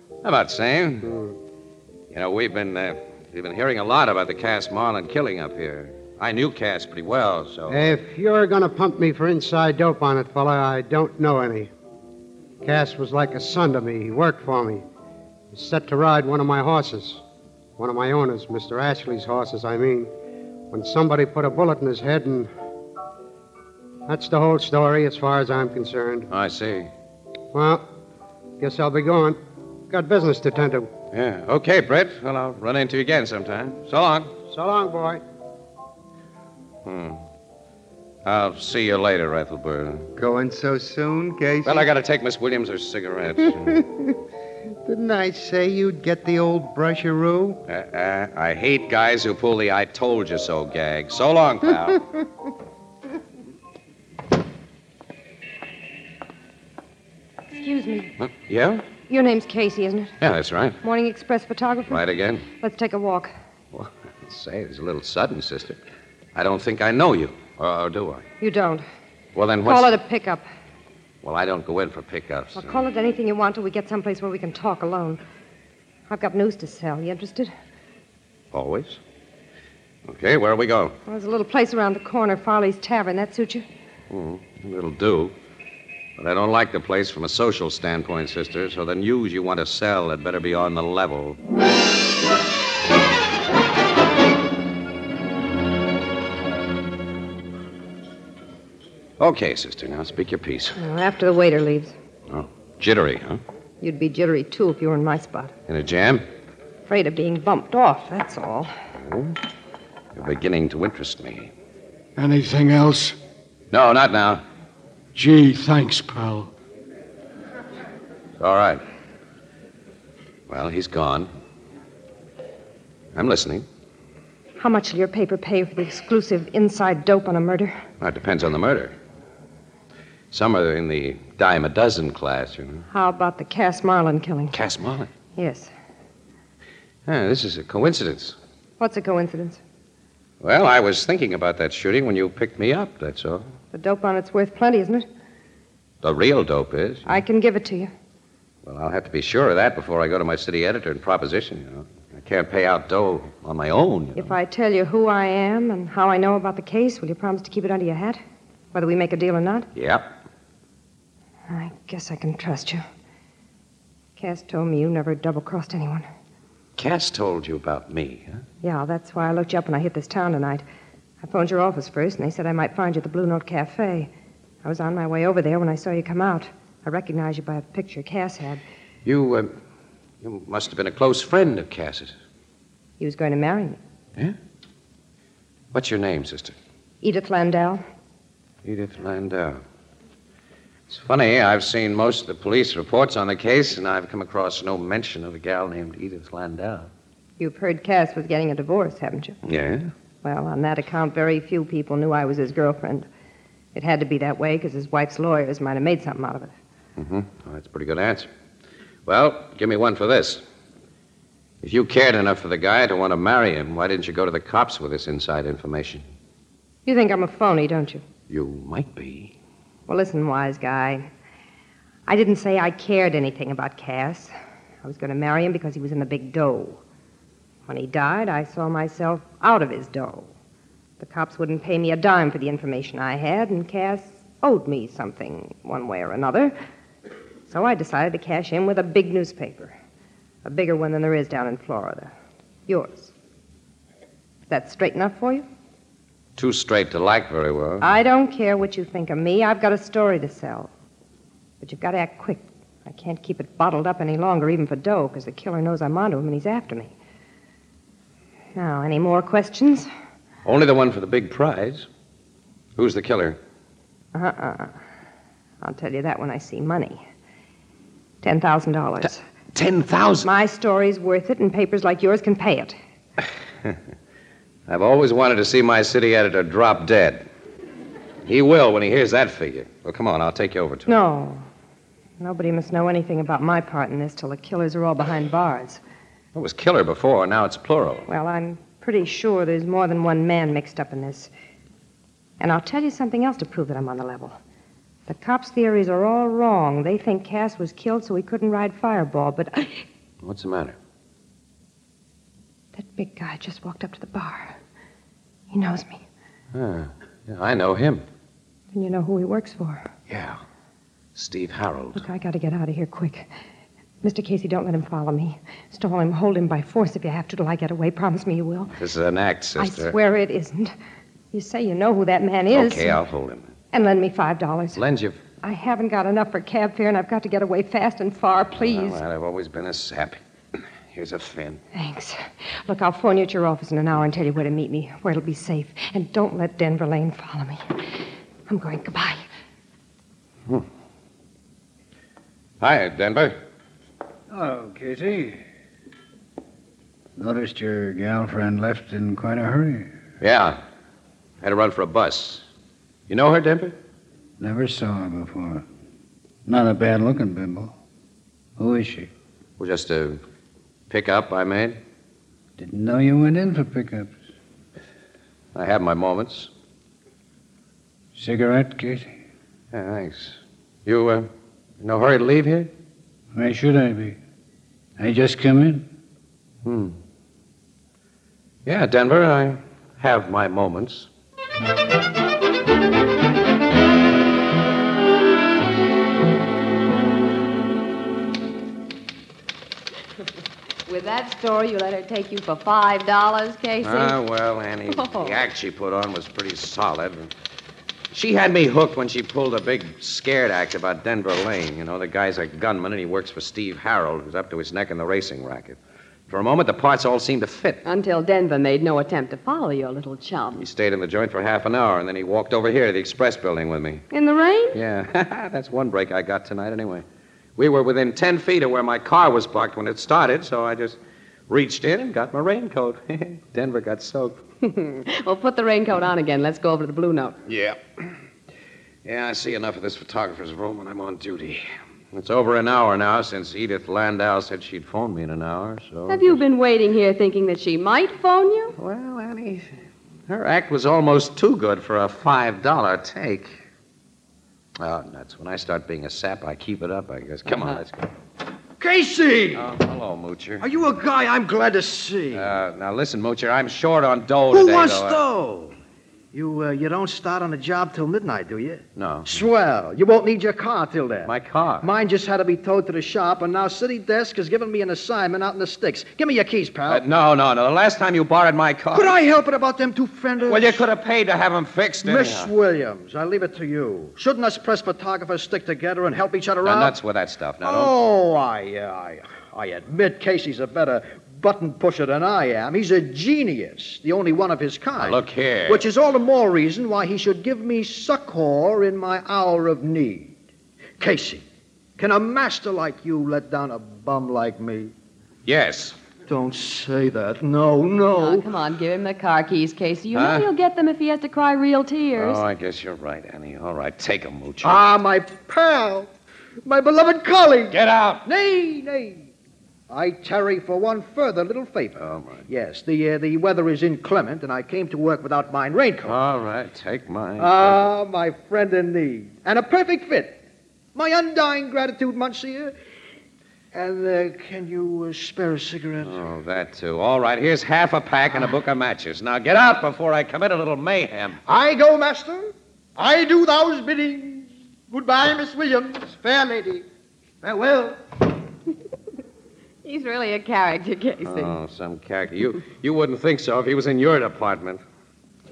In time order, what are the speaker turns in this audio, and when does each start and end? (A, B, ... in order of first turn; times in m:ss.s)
0:00.2-0:01.1 A
0:01.0-0:01.3 B
0:02.1-0:07.9 A
0:07.7-0:11.7 B
0:12.6-0:14.8 B
0:15.5-0:17.2 B
0:17.8-0:20.1 B
0:20.7-0:22.5 B
0:24.1-0:26.3 B
0:26.3-0:26.9 A
0:27.5-0:27.8 B
0:28.6-0:29.4 B
0:29.9-0:30.9 B
0:31.1-0:34.3 A
0:34.5-0:35.2 B
0:36.8-0:37.2 A
0:38.2-0:40.1 A
0:40.2-0:41.9 C
0:41.6-0:43.8 A
0:43.6-0:44.2 C
0:44.8-0:47.6 C
0:47.7-0:52.1 A
0:57.6-0:58.1 D
0:58.2-0:58.8 A
0:59.1-1:00.1 D
1:00.2-1:00.8 A
1:00.8-1:02.0 D
1:01.9-1:02.5 A
1:02.6-1:03.3 D
1:03.7-1:05.8 A
1:06.3-1:08.2 A
1:08.4-1:08.8 D
1:09.3-1:09.9 A
1:09.6-1:10.5 D
1:11.2-1:12.8 A
1:12.6-1:15.2 D
1:16.1-1:17.5 D
1:18.5-1:19.0 A
1:20.1-1:21.0 A
1:21.1-1:23.6 D
1:24.1-1:25.3 A
1:26.2-1:31.4 A
1:39.2-1:40.8 A
1:40.8-1:41.9 D
1:42.3-1:43.4 A
1:43.8-1:45.5 D
1:45.7-1:46.2 A
1:46.9-1:48.7 D
1:49.0-1:49.4 A
1:50.2-1:51.5 A
1:52.2-1:53.2 E
1:53.7-1:54.4 A
1:55.1-1:56.5 E
1:58.4-1:58.8 A
2:00.5-2:01.3 A
2:03.2-2:03.7 A
2:04.6-2:07.8 D
2:08.0-2:08.9 A
2:10.3-2:12.8 A
2:12.9-2:14.6 D
2:14.5-2:15.1 A
2:15.4-2:15.7 D
2:17.1-2:18.4 A
2:18.8-2:19.6 D
2:20.4-2:23.4 A
2:23.7-2:25.0 D
2:26.0-2:27.2 A
2:27.0-2:27.9 D
2:28.6-2:34.3 A
2:34.2-2:38.2 D
2:38.7-2:39.7 D
2:39.7-2:40.1 A
2:41.5-2:42.8 D
2:44.2-2:46.1 D
2:46.8-2:48.4 A
2:48.6-2:50.6 D
2:51.2-2:54.1 D
2:54.6-2:58.6 D
2:59.0-2:59.5 A
3:00.2-3:02.1 A
3:03.0-3:03.8 D
3:05.7-3:06.5 A
3:07.0-3:07.8 D
3:08.6-3:09.6 A
3:10.9-3:16.9 A
3:17.4-3:19.4 D
3:19.4-3:19.9 A
3:20.2-3:23.1 D
3:23.7-3:26.5 D
3:27.0-3:28.3 A
3:29.1-3:30.4 A
3:31.6-3:36.0 A
3:36.8-3:38.0 D
3:38.3-3:39.3 A
3:39.9-3:41.1 D
3:42.1-3:44.3 D
3:44.8-3:46.8 D
3:47.7-3:50.3 D
3:51.0-3:56.5 D
3:57.5-3:59.7 D
4:00.4-4:02.1 D
4:02.7-4:03.1 D
4:04.5-4:05.5 D
4:06.4-4:07.9 A
4:07.8-4:10.7 D
4:11.6-4:16.9 D
4:18.5-4:19.9 D
4:20.4-4:21.9 A
4:22.8-4:23.4 A
4:24.1-4:24.7 D
4:25.6-4:27.0 D
4:28.2-4:29.2 D
4:29.0-4:30.3 A
4:30.2-4:32.8 D
4:34.7-4:37.2 A
4:38.2-4:40.9 A
4:40.9-4:41.5 D
4:42.2-4:45.8 D
4:46.3-4:48.1 A
4:48.1-4:51.3 D
4:52.4-4:54.4 D
4:55.1-4:59.8 D
5:00.2-5:00.8 A
5:02.8-5:04.6 D
5:05.5-5:06.0 D
5:06.5-5:08.0 A
5:08.7-5:09.9 D
5:10.1-5:10.4 A
5:11.1-5:12.0 A
5:11.9-5:13.3 D
5:14.0-5:18.7 D
5:18.8-5:19.9 A
5:19.6-5:20.7 D
5:21.3-5:23.0 D
5:22.5-5:23.5 A
5:23.7-5:24.8 D
5:24.8-5:25.2 A
5:25.4-5:29.0 D
5:28.6-5:31.6 A
5:31.7-5:38.0 D
5:38.5-5:39.2 D
5:42.6-5:43.4 A
5:44.3-5:45.4 F
5:47.2-5:49.9 F
5:50.2-5:50.6 A
5:51.4-5:52.4 A
5:53.1-5:53.8 A
5:54.4-5:55.6 F
5:56.4-5:57.7 F
5:58.6-5:59.1 F
5:59.6-6:00.2 A
6:00.9-6:01.8 A
6:02.6-6:04.2 F
6:05.5-6:06.5 A
6:08.1-6:09.1 F
6:09.7-6:11.3 A
6:11.8-6:12.7 A
6:13.3-6:14.2 F
6:15.0-6:15.9 F
6:16.6-6:16.9 A
6:18.6-6:21.1 A
6:30.9-6:34.2 G
6:33.8-6:37.3 A
6:34.9-6:35.4 G
6:38.1-6:45.8 A
6:46.3-6:47.8 A
6:47.8-6:50.6 G
6:50.5-6:54.0 A
6:54.1-6:54.8 G
6:54.7-6:57.0 A
6:57.6-7:04.4 A
7:04.6-7:07.4 G
7:07.4-7:07.8 A
7:09.0-7:16.4 A
7:16.1-7:18.8 G
7:18.8-7:19.7 A
7:20.3-7:23.6 A
7:24.8-7:28.1 A
7:28.8-7:29.7 H
7:29.5-7:30.7 A
7:30.6-7:32.5 H
7:32.3-7:35.2 A
7:34.5-7:35.8 H
7:36.3-7:47.0 H
7:39.0-7:39.4 A
7:41.2-7:41.9 A
7:46.9-7:49.1 A
7:48.9-7:50.8 H
7:50.5-7:52.5 A
7:52.0-7:57.0 H
7:56.6-7:57.9 A
7:57.6-8:10.4 H
8:05.0-8:05.8 A
8:11.0-8:11.4 H
8:12.0-8:14.9 H
8:15.4-8:16.0 A
8:16.3-8:18.5 H
8:18.1-8:22.4 G
8:20.1-8:20.5 A
8:22.2-8:24.8 A
8:24.6-8:26.1 H
8:26.6-8:29.3 H
8:27.7-8:28.2 A
8:29.9-8:36.2 H
8:32.0-8:32.5 A
8:36.0-8:37.8 A
8:37.4-8:40.4 H
8:40.9-8:42.7 H
8:43.7-8:46.3 H
8:46.0-8:51.4 A
8:51.4-8:56.8 H
8:57.4-8:58.0 H
8:59.8-9:01.6 G
9:01.2-9:04.8 A